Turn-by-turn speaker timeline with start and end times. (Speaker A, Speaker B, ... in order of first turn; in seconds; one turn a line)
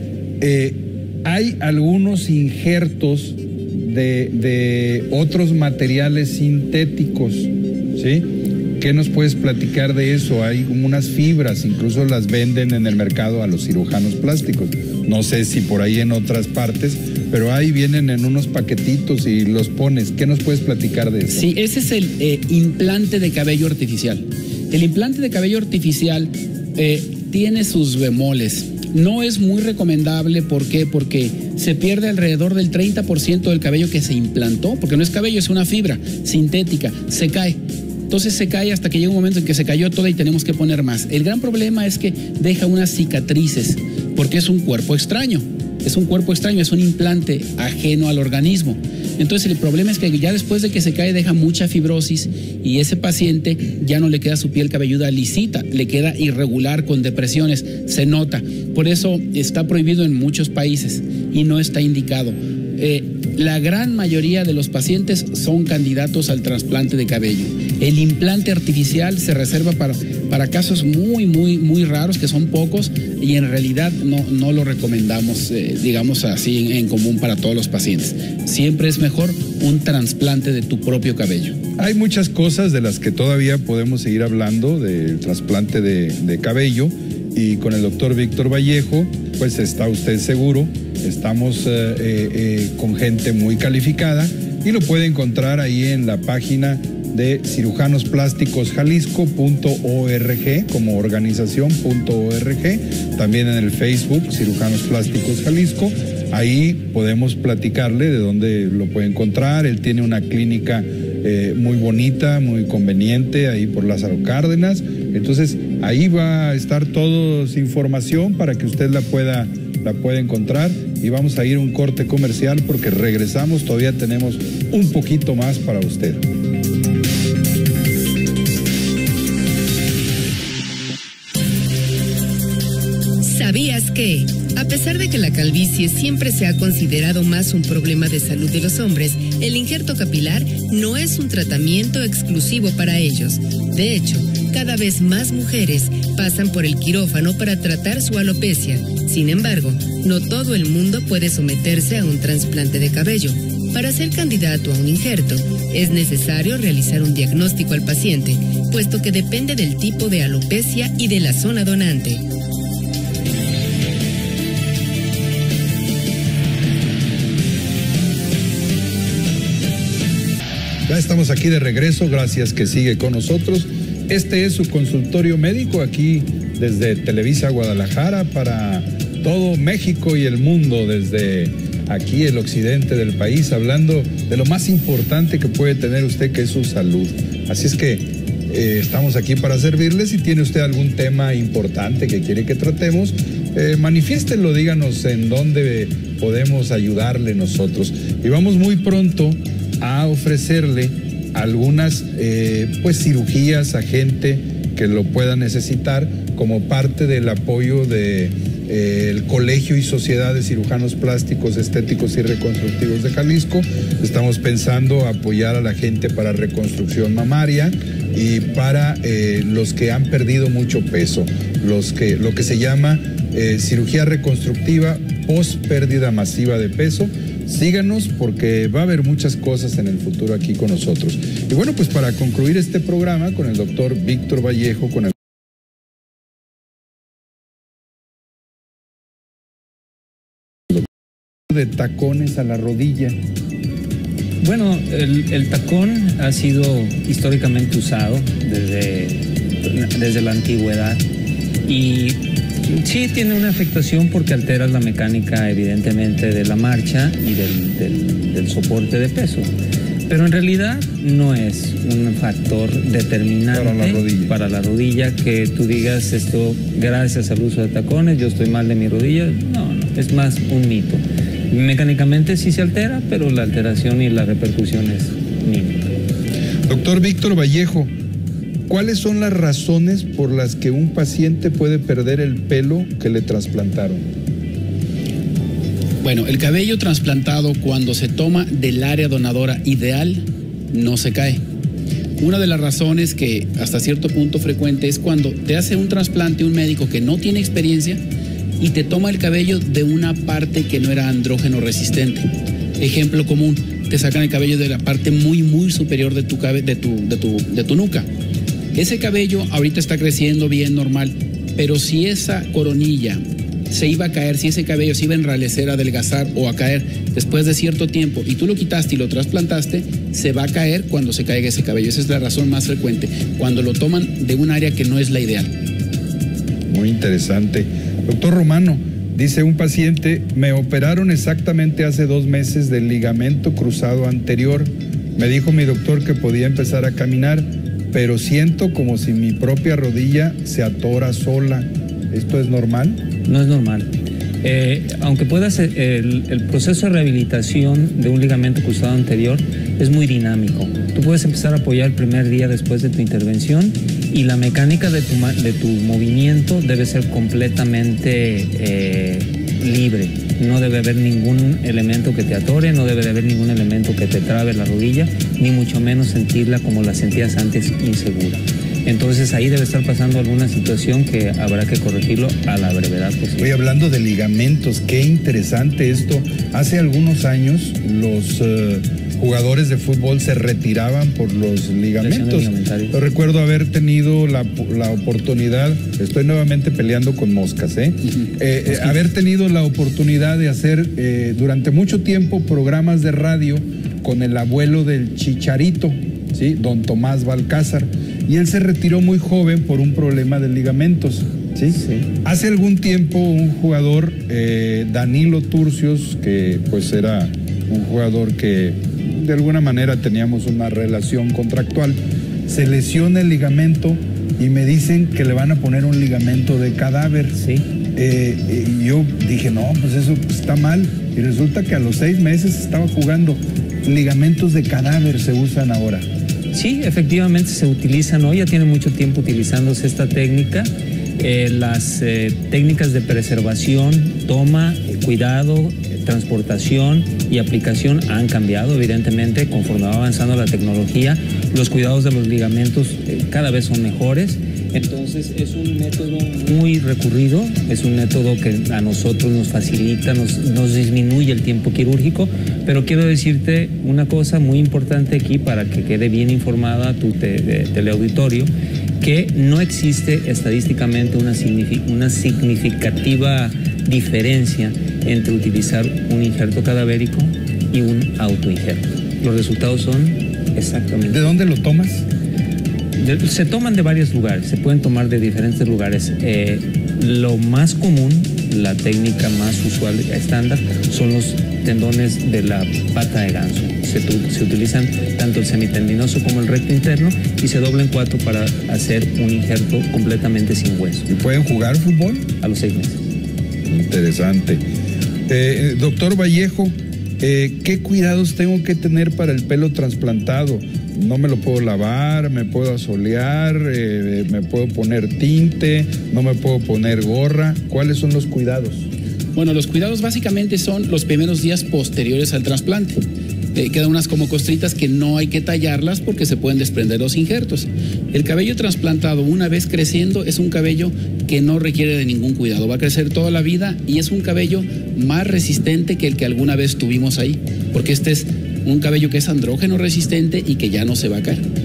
Speaker A: 0.4-21.5
Speaker B: 21.3-81.6
Speaker A: 81.8-126.2
Speaker C: 133.2-162.2
Speaker A: 170.9-235.2
Speaker A: 241.5-243.2
Speaker D: 244.4-251.0
Speaker D: 251.6-259.5
Speaker D: 260.1-275.9
Speaker A: 263.5-264.3
Speaker A: 276.7-277.9
Speaker A: 278.7-284.0
Speaker B: 286.0-291.4
Speaker B: 292.2-298.0
Speaker B: 298.6-302.3
Speaker B: 302.8-308.1
Speaker B: 308.7-325.5
Speaker A: 326.7-343.0
Speaker D: 343.2-343.9
Speaker D: 344.4-373.5
Speaker A: 373.4-417.4
Speaker D: 382.0-383.0
Speaker D: 417.4-417.6
Speaker A: 417.9-426.0
Speaker D: 426.5-458.5
Speaker D: 459.0-471.2
Speaker A: 471.1-472.0
Speaker D: 473.0-491.1
Speaker A: 491.1-492.3
Speaker D: 492.4-493.0
Speaker A: 493.6-494.6
Speaker A: 495.3-508.9
Speaker B: 509.4-513.0
Speaker B: 513.5-531.5